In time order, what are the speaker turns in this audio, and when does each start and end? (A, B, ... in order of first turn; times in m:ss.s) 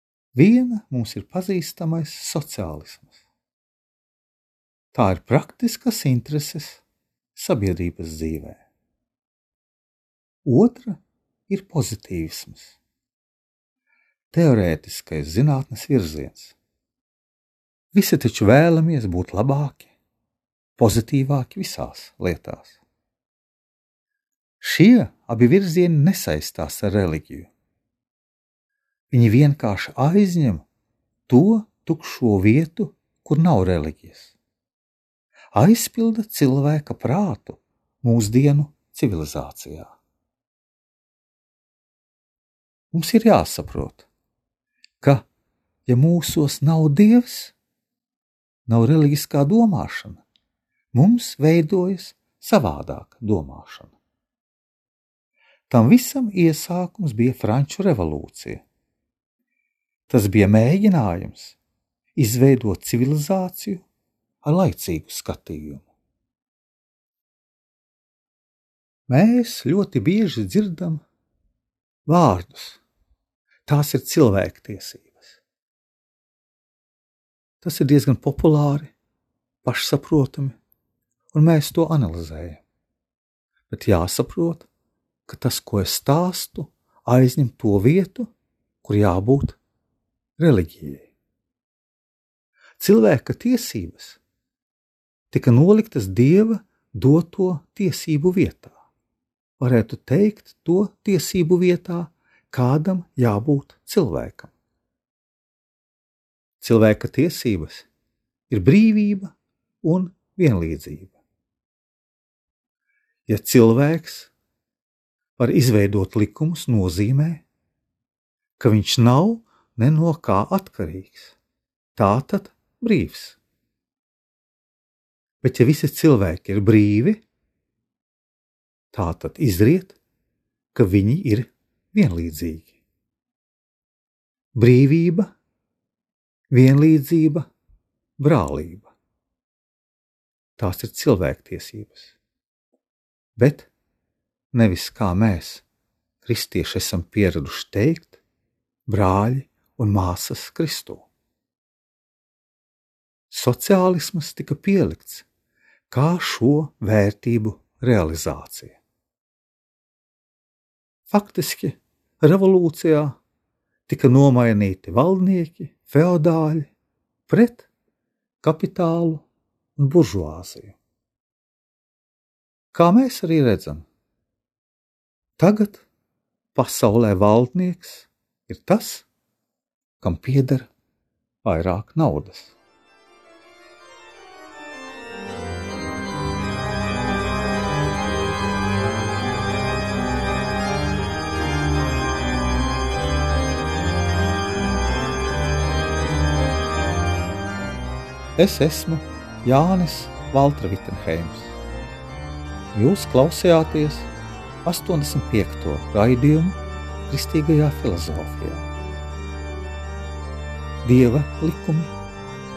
0:00.4-0:03.3 A
0:04.9-0:06.8 A
0:07.4-0:08.6 A
0:10.4-0:12.8 A
0:14.3-0:16.6 A
0:17.9-0:19.9 A
0:20.8-0:22.8 A
0:24.6-0:27.5 A
0:29.1-0:30.6 A
0:31.3-0:34.4 A
0:35.5-0:40.0 A
0:42.9-0:44.1 A
0:45.0-0:45.3 A
0:45.9-0:47.6 A
0:48.7-0:50.2 A
0:50.9-0:54.0 A
0:55.7-0:58.6 A
1:00.1-1:01.6 A
1:02.2-1:03.8 A
1:04.4-1:05.9 A
1:09.1-1:11.0 A
1:12.1-1:12.8 A
1:13.7-1:15.4 A
1:17.6-1:18.9 A
1:19.6-1:20.6 A
1:21.3-1:22.6 A
1:23.7-1:24.7 A
1:25.3-1:28.3 A
1:28.8-1:29.6 A
1:30.4-1:31.1 A
1:32.8-1:34.2 A
1:35.3-1:38.8 A
1:39.6-1:44.5 A
1:46.6-1:47.9 A
1:48.5-1:51.2 A
1:53.3-1:54.3 A
1:55.4-1:57.4 A
1:58.6-2:01.4 A
2:02.0-2:03.4 A
2:05.4-2:07.2 A
2:08.9-2:10.0 A
2:10.7-2:12.8 A
2:14.6-2:15.3 A
2:16.5-2:17.5 A
2:18.2-2:18.9 A
2:20.6-2:22.2 A
2:23.4-2:23.7 A
2:24.5-2:25.7 A
2:26.2-2:28.2 A
2:28.9-2:31.1 A
2:33.3-2:35.3 A
2:35.9-2:38.8 A
2:41.1-2:43.2 A
2:43.9-2:46.7 A
2:47.3-2:47.7 A
2:48.4-2:49.3 A
2:49.8-2:50.8 A
2:52.7-2:53.9 A
2:55.4-2:55.9 A
2:56.6-2:59.1 A
3:00.0-3:00.7 A
3:01.4-3:02.6 A
3:18.4-3:21.6 A
3:22.7-3:24.1 A
3:24.6-3:28.7 A
3:30.8-3:31.9 A